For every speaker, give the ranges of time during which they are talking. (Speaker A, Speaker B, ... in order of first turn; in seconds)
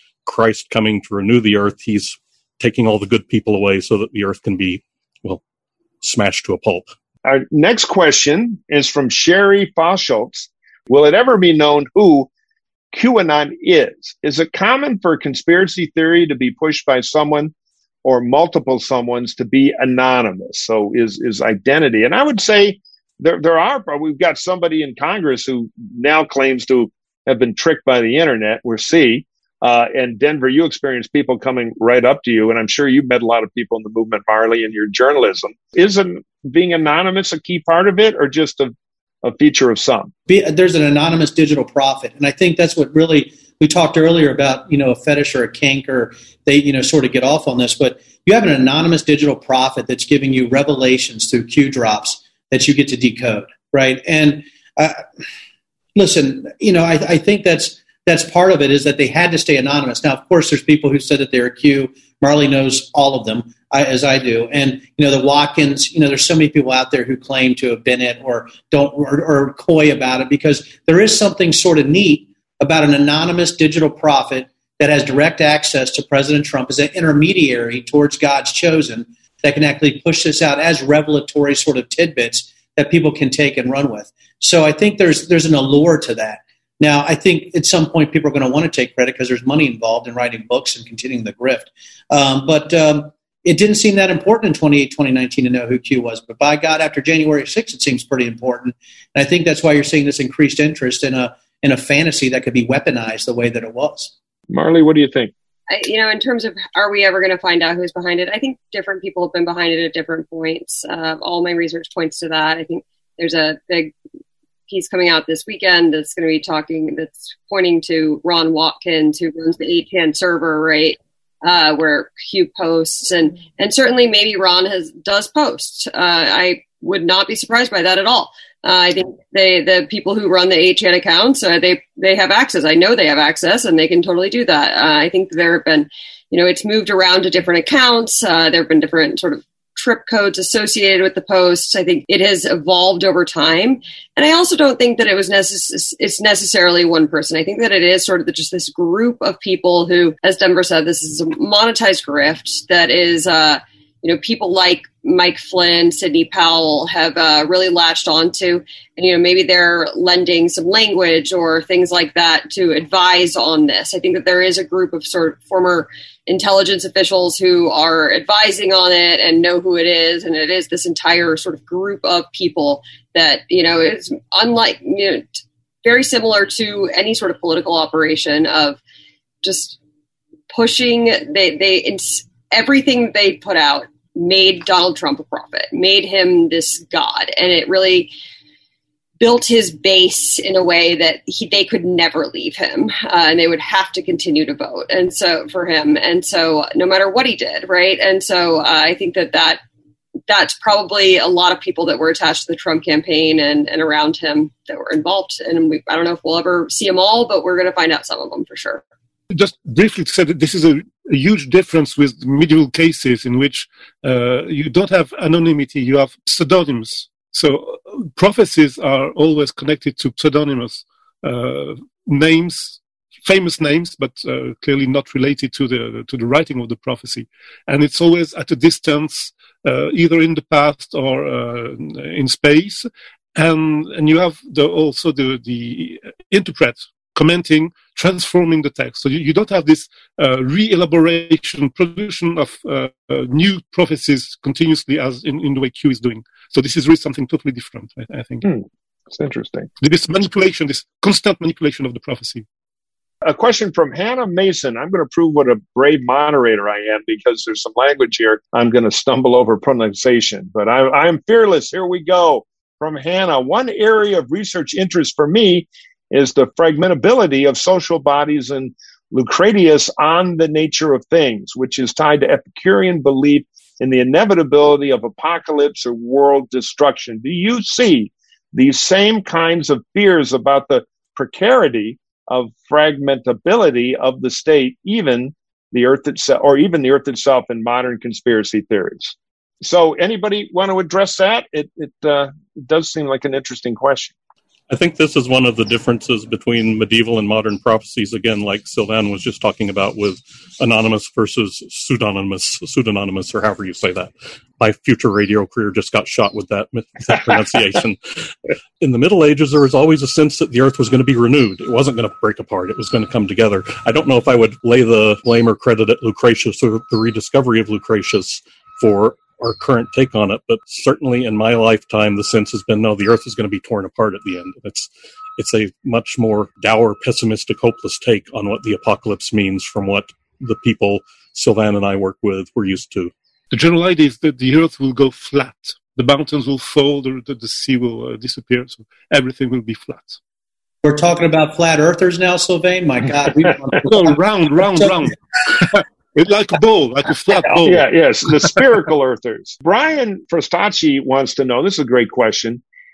Speaker A: 0.2-5.4, 6.0-6.9, 294.7-308.0, 308.8-333.1
Speaker B: 7.2-12.3, 12.9-17.5, 18.0-40.1, 104.5-105.3, 248.4-249.7, 253.2-294.1, 347.6-352.6
Speaker C: 40.3-55.0, 55.9-104.1, 340.8-344.1
Speaker D: 105.7-113.9, 114.7-178.8, 179.4-179.8, 180.5-188.1, 189.2-199.6, 200.3-208.8
Speaker E: 209.3-248.4, 249.8-252.4, 333.5-340.2, 343.8-347.9